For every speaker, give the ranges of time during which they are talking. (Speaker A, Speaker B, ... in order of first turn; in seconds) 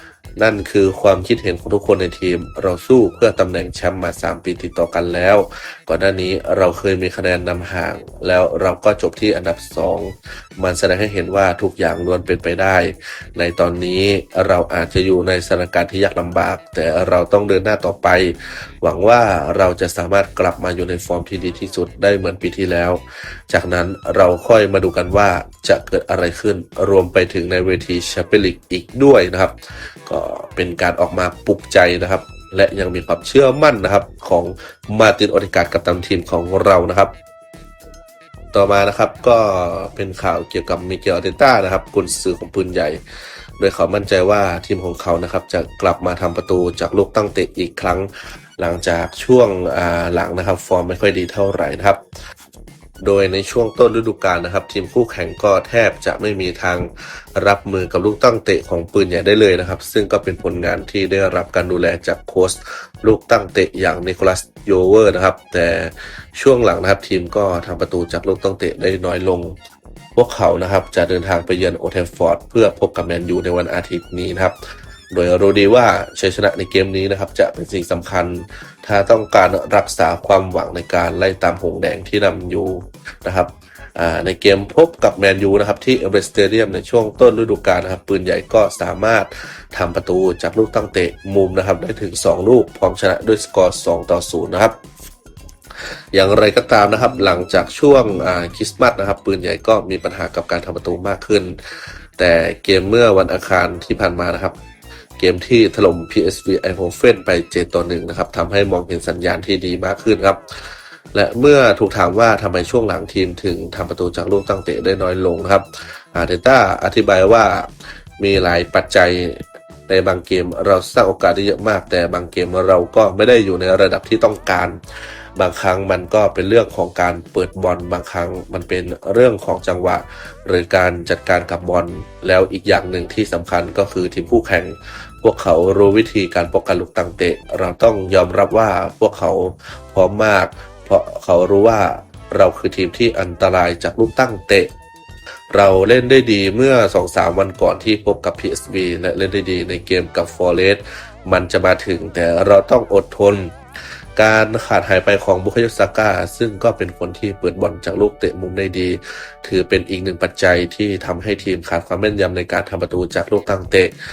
Speaker A: 0.4-37.1, 38.5-43.0, 43.6-52.0, 53.0-69.6, 70.2-74.5, 75.1-94.8, 96.1-101.6, 102.2-104.5, 105.2-124.8, 125.3-144.7, 145.5-153.5, 154.2-163.9